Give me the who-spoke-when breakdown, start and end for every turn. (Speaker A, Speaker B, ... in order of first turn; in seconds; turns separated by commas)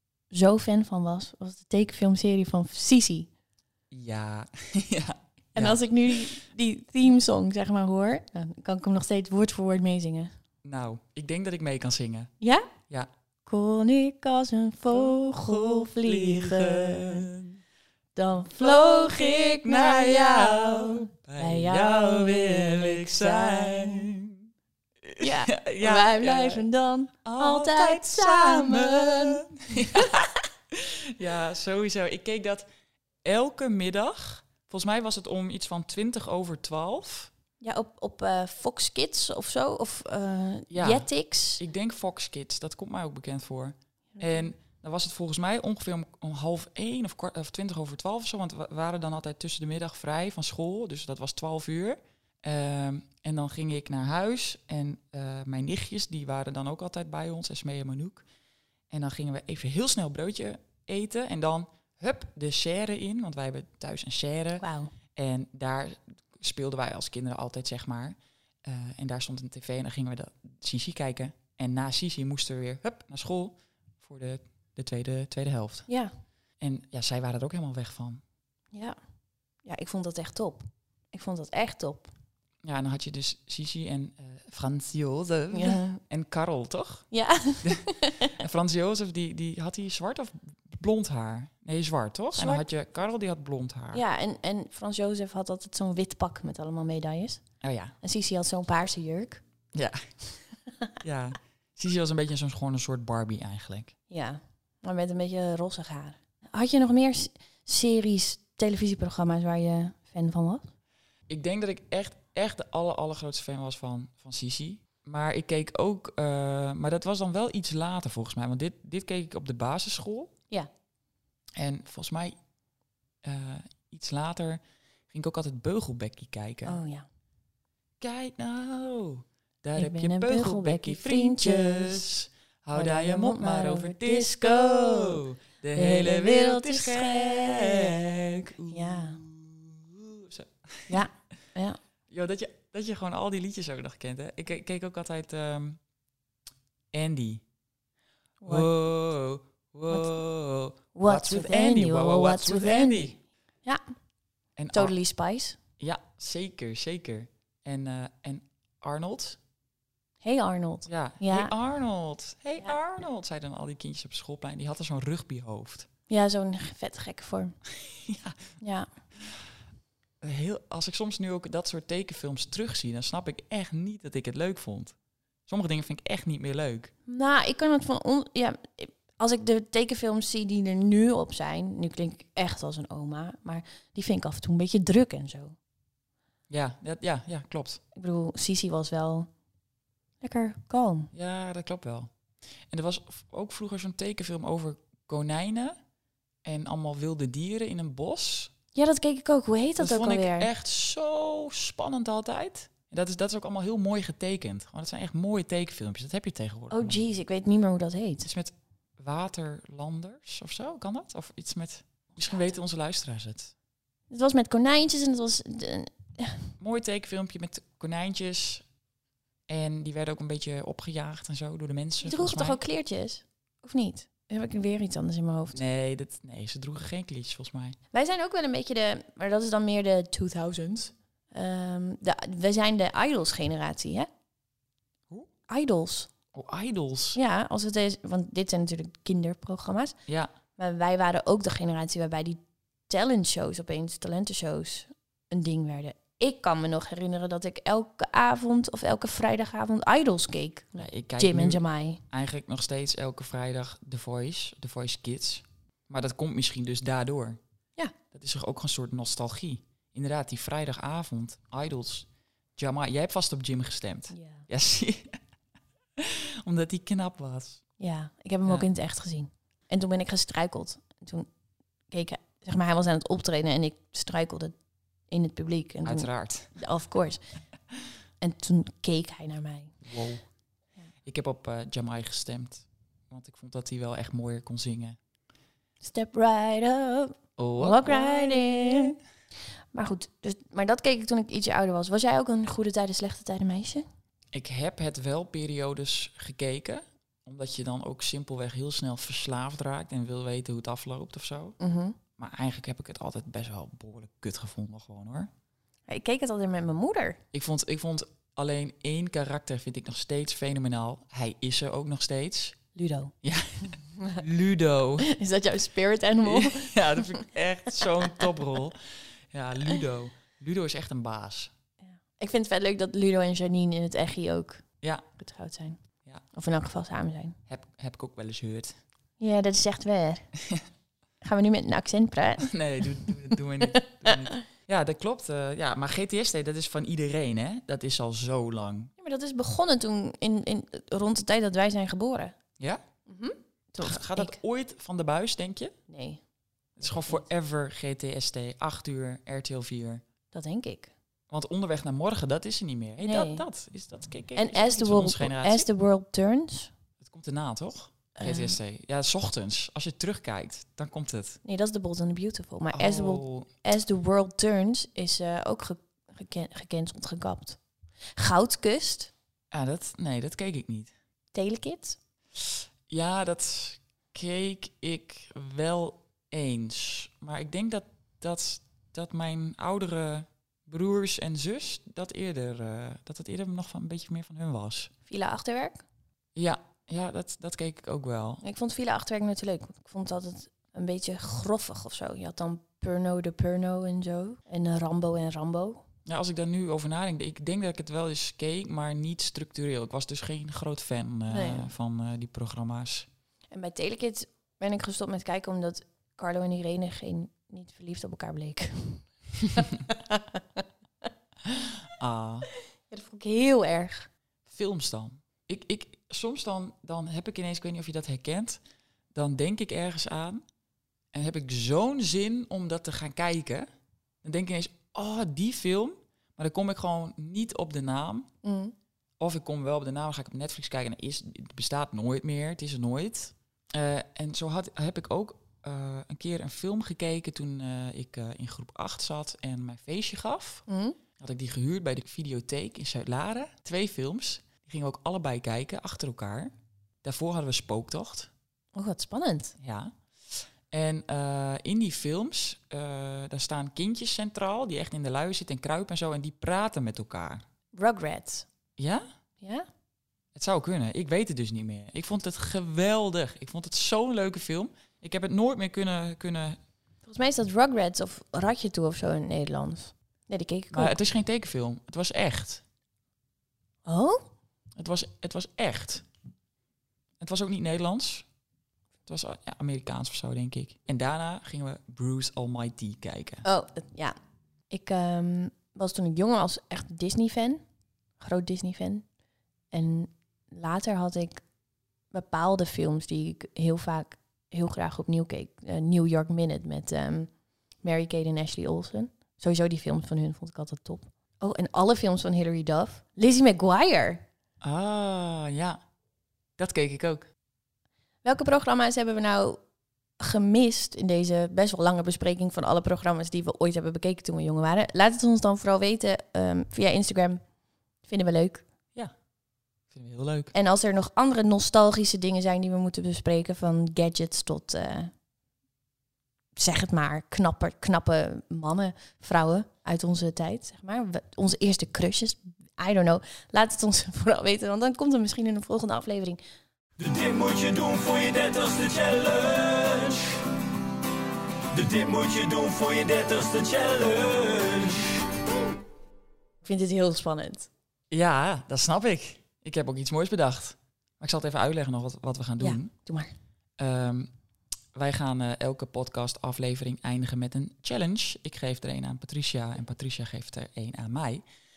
Speaker A: 0.3-3.3, Speaker B: 3.9-6.4, Speaker A: 5.6-10.3, Speaker B: 10.6-12.3, Speaker A: 12.4-12.7, Speaker A: 13.5-17.3, Speaker B: 15.1-17.6, Speaker A: 18.1-24.1, Speaker B: 18.5-24.4, Speaker B: 25.1-26.6, Speaker A: 25.2-30.2, Speaker B: 27.2-32.7, Speaker B: 33.2-37.3, Speaker A: 37.6-41.6, Speaker B: 40.7-58.2, Speaker A: 44.1-44.5, Speaker B: 58.9-75.9, Speaker A: 64.6-64.9, Speaker A: 75.9-76.1, Speaker B: 76.6-78.2, Speaker A: 78.7-79.0, Speaker A: 79.6-82.1, Speaker B: 82.6-87.1, Speaker A: 85.5-86.0, Speaker A: 87.1-88.4, Speaker B: 87.6-94.0, Speaker A: 92.3-92.7, Speaker A: 93.9-97.5, Speaker B: 97.6-98.0, Speaker A: 98.0-99.4, Speaker B: 99.8-100.3, Speaker B: 101.0-103.9, Speaker A: 104.1-110.7, Speaker B: 111.3-120.3, Speaker B: 121.6-122.3, Speaker B: 123.2-126.8, Speaker A: 126.7-127.1, Speaker B: 128.0-141.0, Speaker A: 129.8-132.1, Speaker A: 132.8-135.2, Speaker A: 135.8-138.0, Speaker A: 138.7-139.2, Speaker A: 140.9-141.8, Speaker B: 142.1-145.8, Speaker B: 146.9-147.4, Speaker A: 148.4-148.7, Speaker B: 148.5-153.2, Speaker A: 150.9-153.8, Speaker B: 154.6-154.9, Speaker A: 154.7-155.6, Speaker B: 155.8-159.4, Speaker A: 160.2-161.5, Speaker B: 160.9-165.9, Speaker A: 166.1-167.6, Speaker B: 167.9-168.5, Speaker A: 168.6-168.9, Speaker B: 170.2-175.0, Speaker B: 175.5-176.9, Speaker A: 177.1-185.6, Speaker B: 186.5-187.8, Speaker A: 187.9-189.3, Speaker A: 190.2-191.1, Speaker B: 191.1-192.1, Speaker B: 192.7-195.8, Speaker B: 196.4-198.5, Speaker A: 198.7-200.5, Speaker B: 199.8-207.0, Speaker A: 206.7-208.3, Speaker B: 208.2-213.5, Speaker A: 214.1-216.5, Speaker B: 216.6-218.7, Speaker B: 219.5-222.6, Speaker A: 222.0-225.6, Speaker B: 225.5-227.8, Speaker A: 227.9-234.1, Speaker A: 235.5-236.1, Speaker B: 236.3-237.2, Speaker A: 237.2-240.0, Speaker B: 240.1-240.3, Speaker A: 240.6-252.0, Speaker B: 250.8-257.4, Speaker B: 258.1-265.2, Speaker A: 264.1-264.5, Speaker B: 266.0-267.6, Speaker A: 267.8-271.3, Speaker A: 271.9-277.2, Speaker B: 275.8-276.6, Speaker A: 278.2-279.8, Speaker B: 279.8-280.3, Speaker B: 281.0-285.0, Speaker A: 285.8-289.0, Speaker B: 287.4-288.9, Speaker A: 289.7-293.9, Speaker B: 294.3-301.6, Speaker A: 301.6-302.0, Speaker B: 302.2-305.3, Speaker A: 305.9-307.2, Speaker B: 307.3-312.6, Speaker A: 312.7-313.1, Speaker B: 313.2-315.1, Speaker A: 315.1-317.2, Speaker B: 316.2-321.5, Speaker A: 321.9-325.8, Speaker A: 326.3-327.4, Speaker B: 327.5-328.8, Speaker A: 329.2-330.3, Speaker A: 331.2-333.4, Speaker B: 332.4-338.9, Speaker A: 334.0-334.4, Speaker A: 339.0-342.4, Speaker A: 343.1-344.4, Speaker B: 343.8-345.8, Speaker A: 345.9-346.2, Speaker B: 346.8-350.0, Speaker A: 350.3-350.9, Speaker B: 351.3-355.7, Speaker A: 353.0-353.5, Speaker A: 354.4-356.7, Speaker B: 357.0-361.4, Speaker A: 358.2-358.6, Speaker A: 361.4-367.6, Speaker B: 362.7-363.5, Speaker A: 368.2-369.1, Speaker B: 369.5-370.9, Speaker A: 371.3-372.0, Speaker B: 372.9-384.9, Speaker A: 385.1-385.8, Speaker B: 386.4-388.4, Speaker A: 388.4-395.8, Speaker B: 396.1-403.1, Speaker A: 401.3-401.7, Speaker A: 403.5-410.6, Speaker B: 411.9-412.5, Speaker A: 412.9-414.1, Speaker B: 414.5-418.6, Speaker B: 419.1-420.4, Speaker B: 421.1-423.7, Speaker B: 424.2-428.3, Speaker A: 428.4-428.8, Speaker B: 429.2-440.6, Speaker A: 440.7-441.0, Speaker B: 441.2-446.5, Speaker B: 447.0-448.3, Speaker A: 448.7-449.6, Speaker B: 449.6-457.4, Speaker A: 457.7-458.5, Speaker B: 458.8-459.1, Speaker A: 459.4-459.7, Speaker B: 460.4-466.6, Speaker A: 467.0-471.0, Speaker B: 470.7-472.6, Speaker A: 473.9-474.3, Speaker B: 474.8-476.1, Speaker B: 477.2-478.3, Speaker B: 479.1-483.4, Speaker A: 483.4-484.2, Speaker A: 484.7-487.6, Speaker A: 488.2-489.1, Speaker A: 489.7-491.5, Speaker A: 492.1-504.2, Speaker B: 504.6-505.8, Speaker B: 506.6-507.3, Speaker A: 508.2-509.6, Speaker A: 510.2-517.5, Speaker A: 518.0-518.6, Speaker B: 519.9-520.5, Speaker A: 520.5-525.1, Speaker A: 526.6-536.4, Speaker C: 537.0-540.4, Speaker C: 541.7-545.2, Speaker A: 546.6-547.7, Speaker B: 548.1-552.9, Speaker A: 552.6-553.3, Speaker B: 553.8-554.3, Speaker B: 555.0-561.4